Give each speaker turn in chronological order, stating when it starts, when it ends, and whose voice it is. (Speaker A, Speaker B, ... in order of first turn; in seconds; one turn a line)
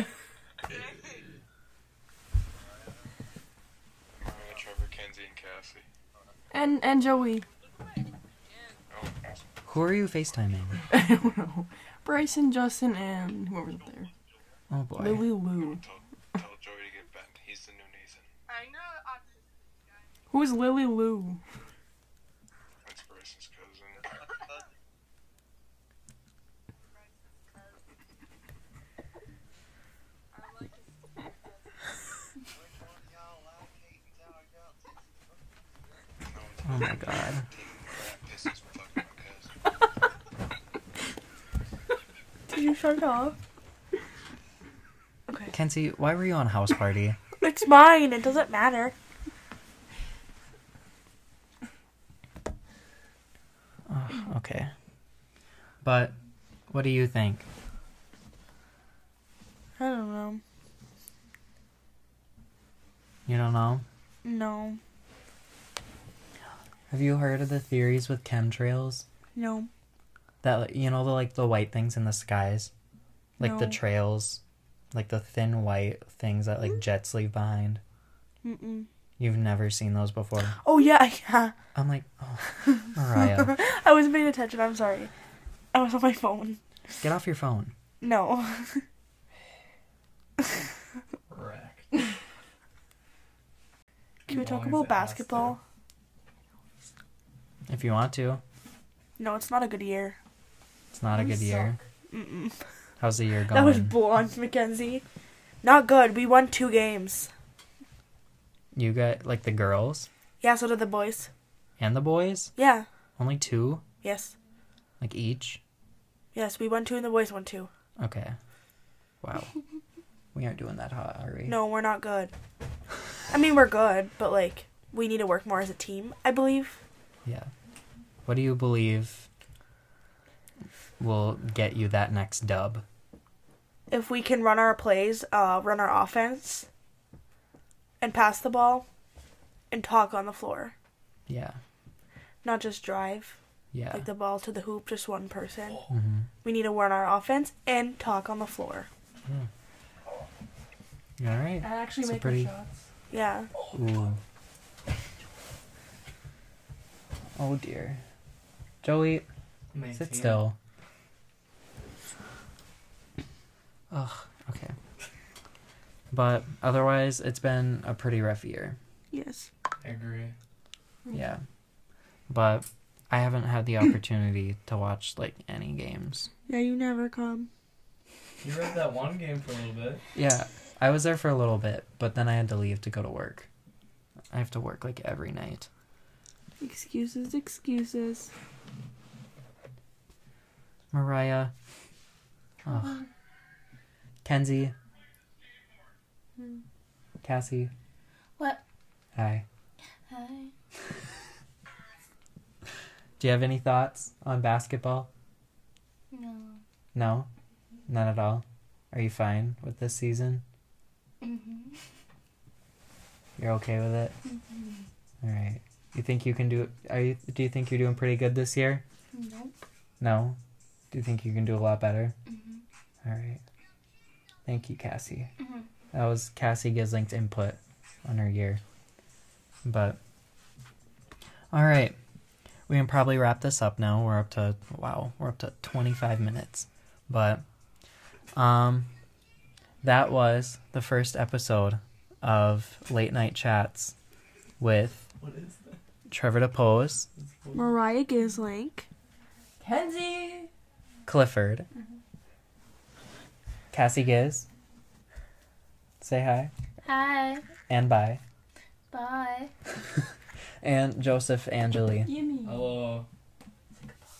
Speaker A: 0.7-1.4
Speaker B: 4.2-5.9
Speaker C: 6.5-7.5
Speaker B: 8.9-9.4
Speaker D: 9.6-10.8
Speaker C: 10.9-14.1
Speaker D: 14.7-15.3
Speaker C: 14.9-15.8
Speaker B: 15.5-18.3
Speaker C: 20.3-21.4
Speaker B: 22.8-24.2
Speaker B: 36.2-39.5
Speaker D: 36.6-37.5
Speaker E: 42.5-43.4
Speaker D: 45.5-47.2
Speaker E: 47.4-48.9
Speaker D: 53.9-54.7
Speaker D: 55.8-56.1
Speaker D: 56.7-57.5
Speaker E: 59.8-60.4
Speaker D: 63.3-63.8
Speaker E: 64.2-64.8
Speaker D: 66.9-69.0
Speaker E: 69.3-69.7
Speaker D: 70.4-72.7
Speaker D: 73.4-74.4
Speaker E: 73.4-73.8
Speaker D: 74.9-77.8
Speaker E: 78.4-78.9
Speaker D: 79.2-80.6
Speaker E: 80.6-81.5
Speaker D: 81.7-83.6
Speaker E: 83.1-85.1
Speaker E: 85.7-86.6
Speaker D: 87.0-87.7
Speaker E: 88.0-88.8
Speaker A: 91.3-92.0
Speaker A: 94.2-95.6
Speaker E: 94.3-95.6
Speaker D: 97.7-98.4
Speaker E: 99.2-100.2
Speaker D: 100.9-101.8
Speaker C: 101.2-101.8
Speaker E: 102.1-102.5
Speaker D: 103.0-104.0
Speaker E: 103.5-105.0
Speaker E: 105.6-107.3
Speaker D: 108.7-110.1
Speaker E: 110.4-111.3
Speaker D: 111.8-112.5
Speaker E: 112.6-112.8
Speaker D: 113.2-113.8
Speaker E: 114.0-114.3
Speaker D: 115.0-115.6
Speaker E: 116.3-117.7
Speaker D: 118.0-118.3
Speaker D: 119.2-119.5
Speaker D: 120.3-121.6
Speaker E: 121.5-122.3
Speaker E: 123.3-126.8
Speaker D: 127.2-127.5
Speaker D: 128.2-129.3
Speaker D: 131.0-132.8
Speaker E: 133.9-136.7
Speaker E: 138.0-138.8
Speaker E: 139.7-140.7
Speaker D: 141.3-141.6
Speaker E: 142.4-143.3
Speaker D: 143.7-144.1
Speaker E: 143.9-145.8
Speaker D: 145.9-146.3
Speaker E: 146.4-148.9
Speaker D: 151.2-152.5
Speaker C: 151.6-152.8
Speaker E: 153.1-153.5
Speaker D: 153.7-154.2
Speaker D: 157.3-158.0
Speaker D: 158.8-159.2
Speaker A: 159.7-160.4
Speaker D: 159.9-160.6
Speaker D: 163.9-164.8
Speaker D: 166.1-168.8
Speaker E: 169.1-169.5
Speaker A: 169.8-170.3
Speaker D: 171.1-171.4
Speaker D: 172.3-176.3
Speaker E: 176.5-177.5
Speaker A: 178.4-180.0
Speaker D: 180.1-183.5
Speaker D: 184.3-185.7
Speaker E: 186.6-188.3
Speaker D: 190.9-191.5
Speaker D: 192.6-193.0
Speaker F: 192.7-193.0
Speaker D: 194.2-194.7
Speaker D: 197.2-197.7
Speaker D: 199.1-199.4
Speaker F: 200.1-200.5
Speaker D: 203.2-205.1
Speaker F: 206.1-206.6
Speaker D: 206.9-207.3
Speaker D: 207.9-210.4
Speaker F: 211.2-211.8
Speaker D: 213.4-214.1
Speaker F: 214.2-214.9
Speaker D: 215.2-218.8
Speaker F: 219.1-219.5
Speaker D: 220.0-220.4
Speaker D: 220.9-222.1
Speaker F: 222.3-222.6
Speaker D: 223.0-223.4
Speaker D: 224.4-225.3
Speaker F: 225.4-225.7
Speaker D: 225.9-228.6
Speaker D: 229.7-230.0
Speaker D: 231.5-232.0
Speaker D: 232.7-237.4
Speaker D: 238.3-238.9
Speaker D: 239.8-243.9
Speaker D: 244.6-245.1
Speaker A: 245.2-245.8
Speaker D: 246.1-247.1
Speaker A: 247.2-247.6
Speaker E: 247.5-248.8
Speaker C: 249.6-250.5
Speaker D: 251.1-251.7
Speaker D: 253.7-254.5
Speaker D: 256.0-256.5
Speaker F: 256.8-257.4
Speaker D: 257.7-258.2
Speaker F: 258.9-259.5
Speaker D: 260.6-262.1
Speaker C: 262.0-262.8
Speaker A: 262.4-263.1